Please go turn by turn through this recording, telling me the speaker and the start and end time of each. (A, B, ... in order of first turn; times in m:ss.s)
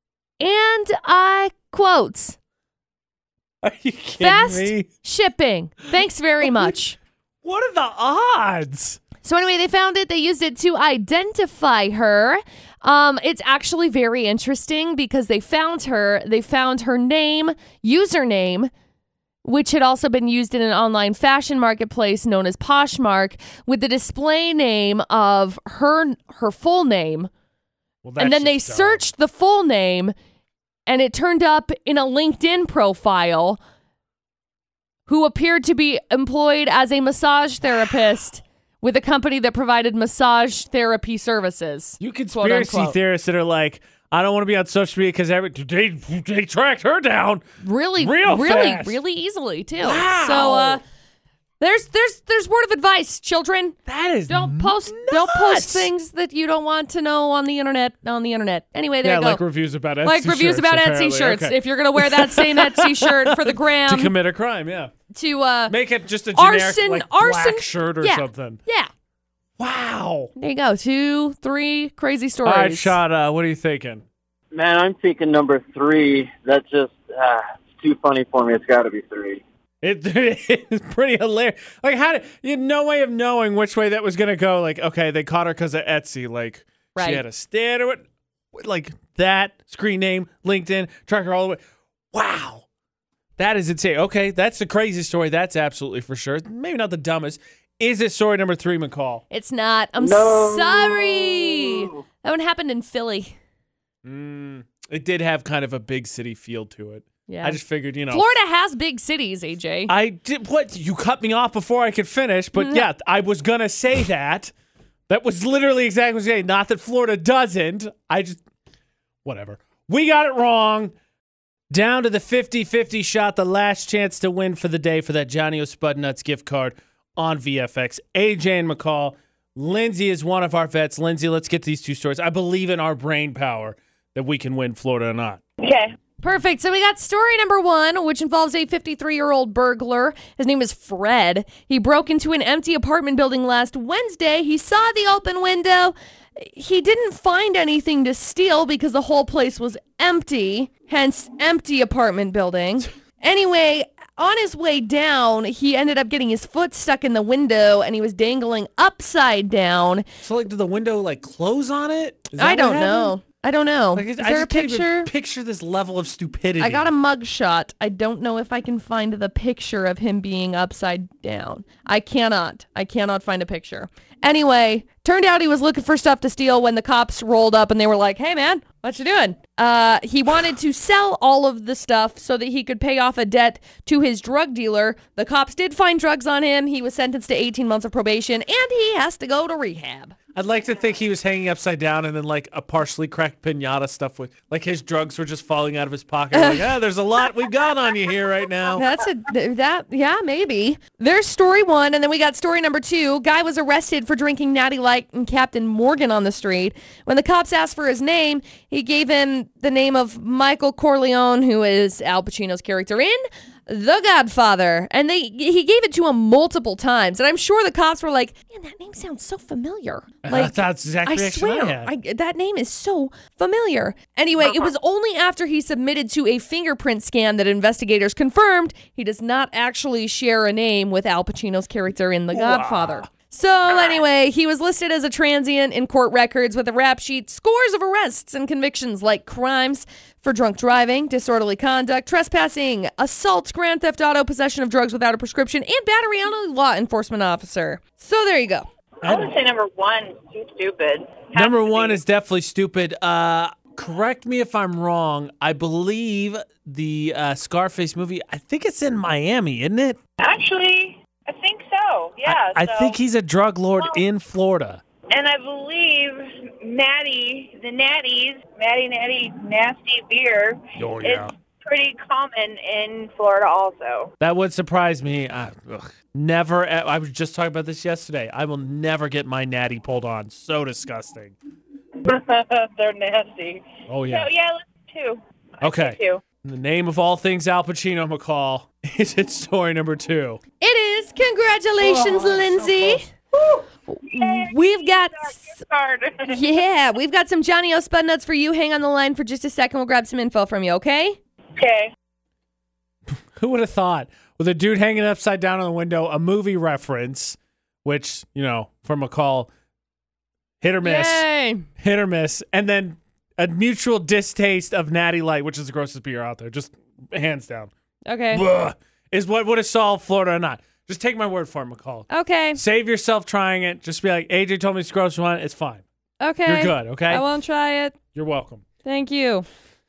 0:00.4-0:02.4 A
0:03.6-0:04.9 B
0:04.2-0:07.0 A
0:06.4-0:06.7 B
0:07.4-0:09.0 B
0:09.2-0:18.7 A
0:19.4-0:27.3 A
0:28.0-0:29.0 B
0:28.2-0:30.1 A
0:30.9-0:33.6 A
0:35.1-0:43.0 A
0:42.0-0:47.4 B
0:47.6-0:50.8 A
0:48.0-0:49.0 B
0:49.8-0:50.8 B
0:51.6-0:53.8 A
0:53.9-0:55.9 B
0:54.3-0:59.4 A
0:59.0-1:04.9 B
1:00.0-1:04.1 A
1:05.1-1:05.7 A
1:05.7-1:08.6 B
1:06.3-1:08.9 A
1:09.6-1:10.3 B
1:10.4-1:13.0 A
1:12.4-1:14.0 B
1:14.5-1:19.4 C
1:19.8-1:31.6 B
1:26.9-1:27.2 A
1:32.1-1:32.6 B
1:33.4-1:39.2 B
1:39.3-1:43.3 A
1:40.0-1:41.9 C
1:44.0-1:48.2 B
1:47.3-1:49.9 A
1:49.9-1:54.5 B
1:52.5-1:52.8 A
1:55.1-1:58.4 B
1:59.2-2:00.9 B
2:01.7-2:15.4 B
2:15.6-2:15.9 D
2:16.2-2:40.0 A
2:40.2-2:43.2 B
2:42.4-2:45.1 A
2:43.9-2:46.9 B
2:46.6-3:10.2 A
3:10.3-3:18.8 B
3:16.3-3:16.6 A
3:18.7-4:08.7 A
3:40.2-3:41.9 B
3:52.3-3:53.0 B
4:09.0-4:09.3 B
4:09.0-4:12.0 D
4:11.3-4:20.0 B
4:20.2-4:23.0 D
4:22.2-4:24.8 B
4:25.1-4:34.1 D
4:30.8-4:31.3 B
4:34.2-4:41.3 B
4:42.0-4:46.2 D
4:43.9-4:44.3 B
4:45.6-4:50.4 B
4:50.6-4:53.0 A
4:51.8-4:53.0 B
4:53.3-4:56.4 D
4:53.9-4:55.5 A
4:56.3-5:01.2 A
5:01.6-5:01.9 D
5:03.3-5:09.5 B
5:10.6-5:11.2 B
5:10.8-5:11.6 A
5:11.8-5:17.7 B
5:18.1-5:18.4 A
5:18.3-5:25.8 B
5:22.1-5:22.6 A
5:26.2-5:28.0 A
5:26.4-5:27.2 B
5:28.1-5:28.6 B
5:28.8-5:29.4 A